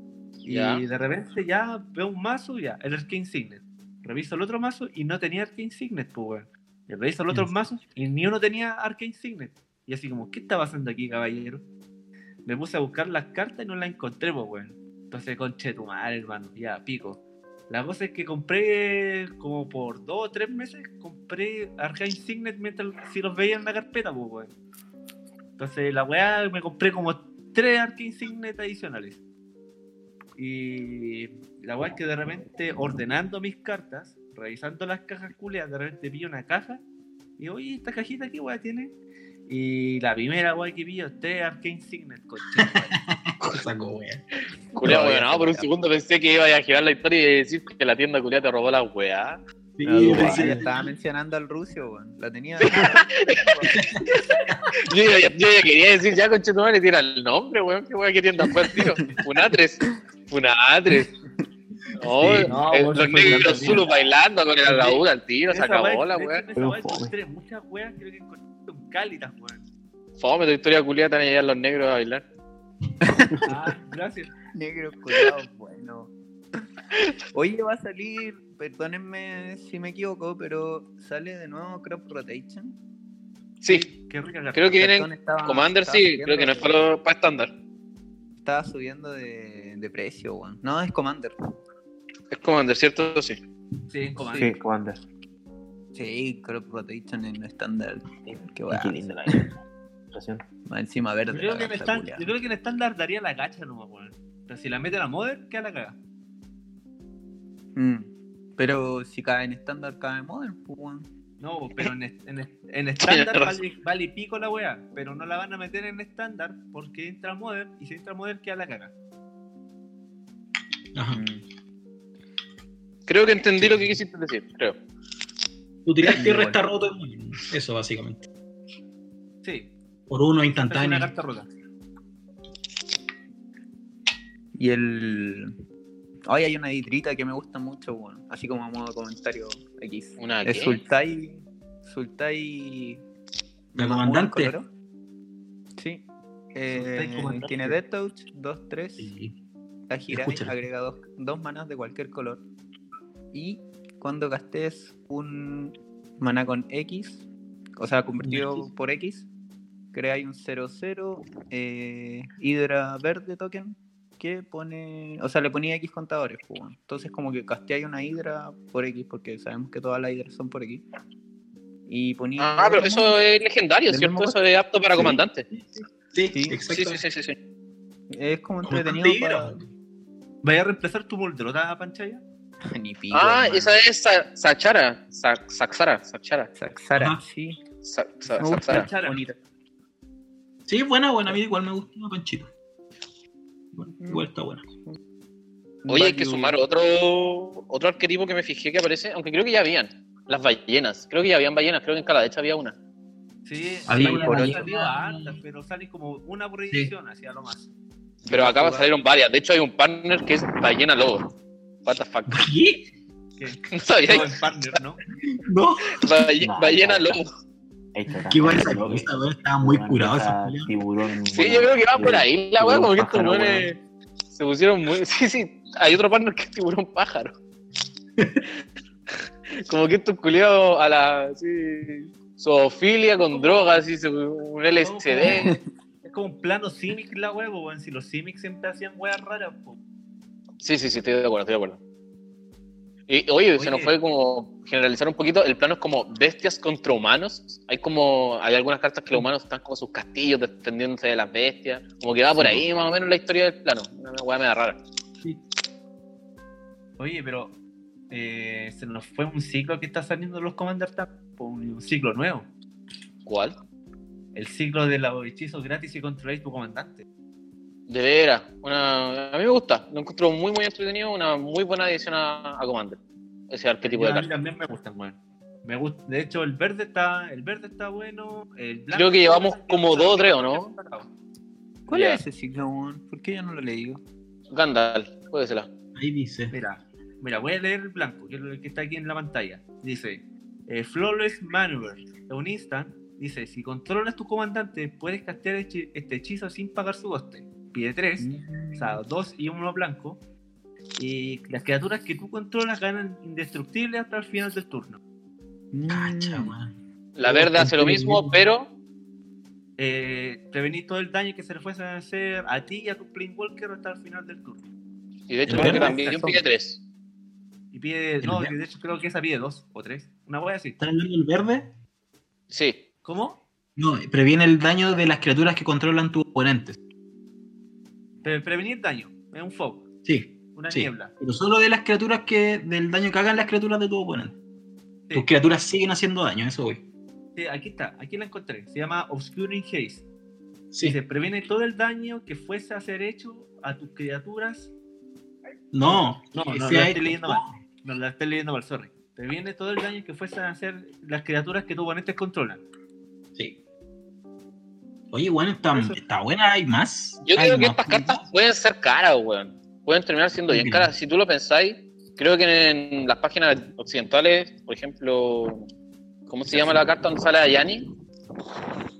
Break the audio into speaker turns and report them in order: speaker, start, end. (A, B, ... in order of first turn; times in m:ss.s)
0:00.4-0:11.6 A
0:00.4-0:00.8 B
0:12.4-0:24.5 A
0:25.6-0:29.2 A
0:30.4-0:36.8 A
0:37.4-0:38.9 A
0:39.5-0:43.0 A
0:42.5-0:44.2 C
0:44.8-0:49.4 B
0:44.8-0:45.7 D
0:44.8-0:45.2 C
0:49.8-0:50.8 C
0:49.8-0:53.8 D
0:50.1-0:50.4 E
0:52.6-0:53.6 B
0:53.7-0:54.6 C
0:54.1-1:01.1 B
0:58.7-0:59.1 D
1:02.0-1:06.4 B
1:02.2-1:02.5 C
1:02.5-1:03.9 A
1:04.6-1:09.6 A
1:06.6-1:07.1 E
1:10.2-1:12.2 B
1:13.0-1:13.5 D
1:13.4-1:14.3 A
1:14.5-1:16.6 D
1:17.3-1:22.8 D
1:23.6-1:23.9 B
1:23.7-1:24.8 A
1:24.5-1:27.5 B
1:24.8-1:26.8 D
1:28.4-1:31.3 D
1:32.3-1:33.4 B
1:33.9-1:34.5 A
1:34.3-1:35.0 E
1:35.9-1:39.5 D
1:38.3-1:39.6 E
1:40.1-1:40.4 E
1:40.7-1:42.3 D
1:41.3-1:46.0 A
1:47.8-1:51.1 D
1:51.4-1:58.9 A
1:53.0-1:53.6 B
2:00.9-2:01.2 C
2:01.1-2:01.4 D
2:03.1-2:04.8 B
2:03.6-2:03.9 C
2:05.8-2:08.2 C
2:06.1-2:06.6 D
2:09.4-2:09.7 A
2:10.1-2:11.1 C
2:10.6-2:11.5 A
2:14.6-2:15.5 D
2:16.3-2:23.0 D
2:20.2-2:20.8 B
2:23.7-2:24.6 C
2:23.7-2:24.7 D
2:25.8-2:29.1 D
2:26.7-2:27.8 A
2:29.0-2:29.3 C
2:29.9-2:32.4 D
2:30.1-2:30.6 C
2:33.3-2:37.2 D
2:37.8-2:39.3 D
2:38.2-2:38.7 C
2:39.9-2:50.8 D
2:51.9-2:53.1 D
2:52.4-2:55.5 B
2:53.9-2:54.4 D
2:55.0-2:57.0 C
2:56.3-2:56.6 D
2:56.7-2:57.4 B
2:58.1-2:59.6 D
2:58.6-2:59.6 C
3:00.4-3:02.2 A
3:02.7-3:03.8 D
3:03.1-3:06.5 B
3:06.5-3:07.6 D
3:06.9-3:07.2 C
3:07.8-3:08.9 B
3:08.4-3:09.4 D
3:08.4-3:09.2 A
3:10.7-3:12.5 C
3:13.7-3:14.6 C
3:14.0-3:14.3 D
3:15.8-3:16.6 A
3:15.9-3:22.8 B
3:23.4-3:27.7 A
3:23.8-3:25.4 C
3:23.9-3:24.7 D
3:28.2-3:31.3 B
3:28.3-3:28.8 A
3:28.4-3:28.8 D
3:31.8-3:32.5 B
3:32.3-3:32.8 C
3:33.4-3:35.0 A
3:33.7-3:34.4 B
3:35.3-3:36.0 C
3:36.0-3:37.3 B
3:36.4-3:37.2 E
3:37.9-3:39.1 E
3:38.3-3:40.7 C
3:39.6-3:43.7 E
3:41.3-3:43.8 B
3:44.3-3:47.3 B
3:48.2-3:48.4 C
3:49.6-3:55.5 B
3:53.3-3:53.8 A
3:54.8-3:55.5 A
3:55.2-3:55.6 D
3:56.0-3:59.8 A
4:00.6-4:01.8 B
4:03.1-4:14.8 B
4:03.6-4:03.9 A
4:12.3-4:12.7 C
4:17.0-4:17.5 A
4:18.1-4:22.5 A
4:23.2-4:23.6 B
4:24.3-4:27.0 A
4:27.9-4:33.0 B
4:33.5-4:34.3 B
4:33.8-4:41.1 A
4:38.9-4:40.7 B
4:41.9-4:44.0 D
4:41.9-4:42.2 B
4:44.5-4:45.7 B
4:45.9-4:46.5 C
4:46.5-5:00.2 A
4:58.2-4:59.0 D
5:01.0-5:05.0 A
5:05.7-5:06.5 D
5:05.9-5:06.7 C
5:07.2-5:08.7 B
5:07.2-5:08.4 C
5:09.8-5:14.6 A
5:15.3-5:16.8 B
5:15.4-5:15.9 C
5:15.5-5:16.4 D
5:17.7-5:20.8 A
5:18.2-5:18.5 C
5:20.8-5:21.7 C
5:22.5-5:22.8 B
5:23.0-5:23.4 A
5:23.8-5:26.8 C
5:28.2-5:29.8 A
5:30.0-5:34.4 C
5:30.5-5:31.1 A
5:35.1-5:36.8 C
5:37.4-5:40.0 A
5:40.7-5:41.0 C
5:40.8-5:44.7 A
5:45.7-5:47.6 C
5:45.8-5:52.6 A
5:55.1-5:58.2 C
5:55.7-5:56.0 A
5:57.2-6:05.6 B
6:00.5-6:00.9 C
6:06.3-6:07.9 B